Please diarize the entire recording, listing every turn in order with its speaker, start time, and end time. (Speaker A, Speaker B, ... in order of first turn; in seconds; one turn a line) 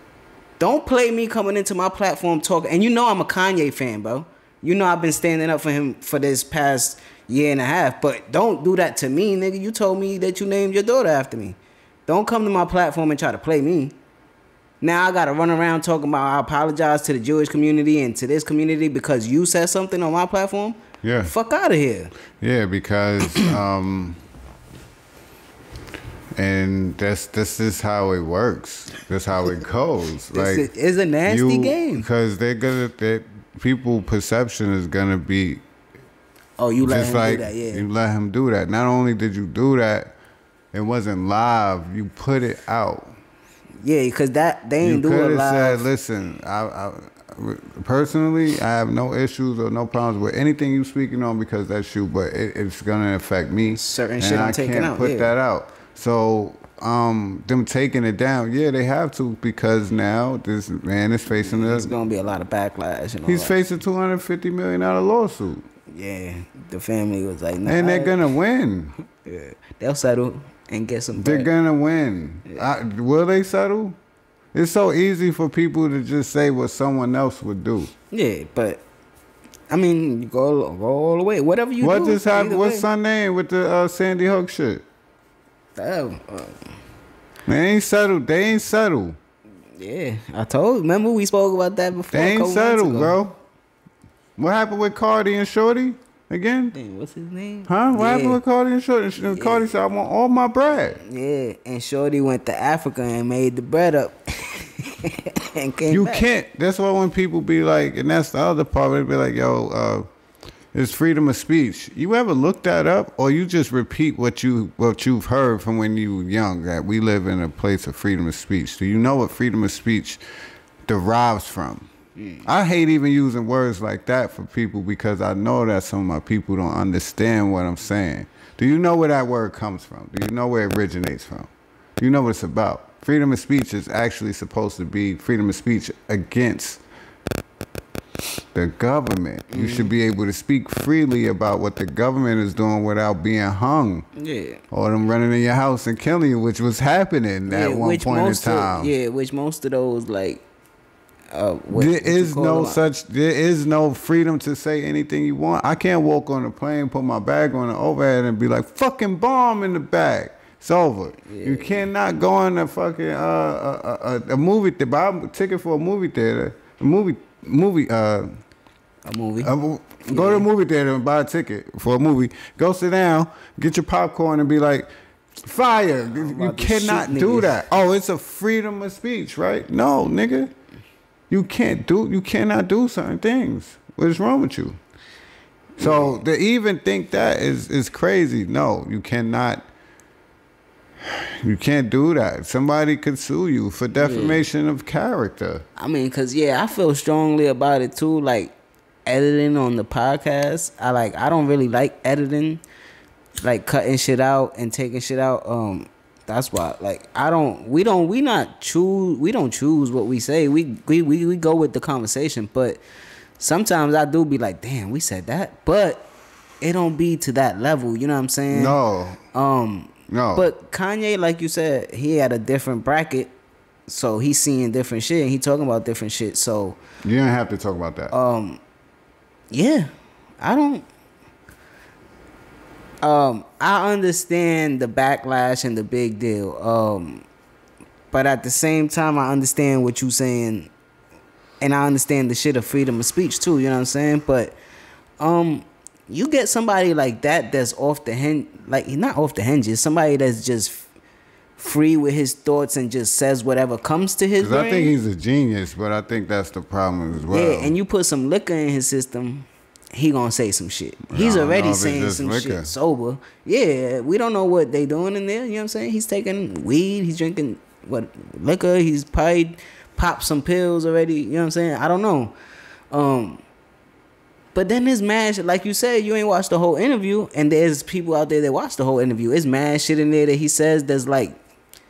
Speaker A: 0.6-13.9
Speaker A: 14.8-22.1
Speaker B: 21.0-21.3
Speaker B: 22.4-24.2
Speaker B: 26.4-30.7
Speaker A: 30.3-32.1
Speaker B: 31.3-35.6
Speaker A: 36.6-37.9
Speaker B: 36.8-40.1
Speaker B: 40.7-43.1
Speaker A: 43.8-45.9
Speaker B: 44.8-61.9
Speaker A: 53.7-55.4
Speaker A: 61.3-63.6
Speaker B: 63.3-65.6
Speaker A: 65.9-68.3
Speaker B: 67.7-69.0
Speaker A: 69.2-71.5
Speaker B: 71.2-74.0
Speaker B: 74.5-77.9
Speaker A: 78.1-78.8
Speaker A: 79.7-82.9
Speaker B: 81.8-84.8
Speaker A: 85.8-86.7
Speaker B: 87.5-89.2
Speaker A: 89.8-93.2
Speaker B: 92.1-93.4
Speaker B: 94.4-96.8
Speaker A: 96.7-98.4
Speaker B: 97.7-101.0
Speaker A: 99.2-99.7
Speaker A: 101.0-106.2
Speaker B: 105.9-110.1
Speaker B: 110.7-120.2
Speaker B: 120.9-121.9
Speaker A: 122.2-122.5
Speaker B: 122.5-136.8
Speaker B: 138.5-144.1
Speaker A: 139.5-139.9
Speaker A: 144.2-144.6
Speaker B: 144.7-148.9
Speaker A: 147.5-150.4
Speaker A: 151.3-152.9
Speaker B: 151.7-168.3
Speaker A: 161.3-161.9
Speaker A: 169.1-169.5
Speaker B: 169.4-174.9
Speaker A: 170.1-170.5
Speaker B: 175.4-180.5
Speaker A: 176.2-177.5
Speaker B: 181.3-184.8
Speaker B: 185.8-189.7
Speaker A: 185.8-186.2
Speaker B: 191.0-195.7
Speaker A: 194.0-194.4
Speaker A: 195.8-198.5
Speaker A: 199.1-202.6
Speaker A: 203.4-212.8
Speaker A: 213.4-216.1
Speaker A: 216.6-218.8
Speaker B: 218.5-219.2
Speaker A: 219.3-223.3
Speaker B: 220.1-220.5
Speaker A: 223.9-226.8
Speaker B: 227.0-228.2
Speaker A: 228.1-228.6
Speaker A: 229.5-230.9
Speaker A: 233.0-237.3
Speaker A: 238.1-240.7
Speaker A: 241.6-244.6
Speaker A: 245.2-250.9
Speaker A: 251.6-254.9
Speaker B: 254.4-257.7
Speaker A: 257.2-272.3
Speaker B: 261.1-262.7
Speaker A: 272.9-273.4
Speaker A: 274.6-281.4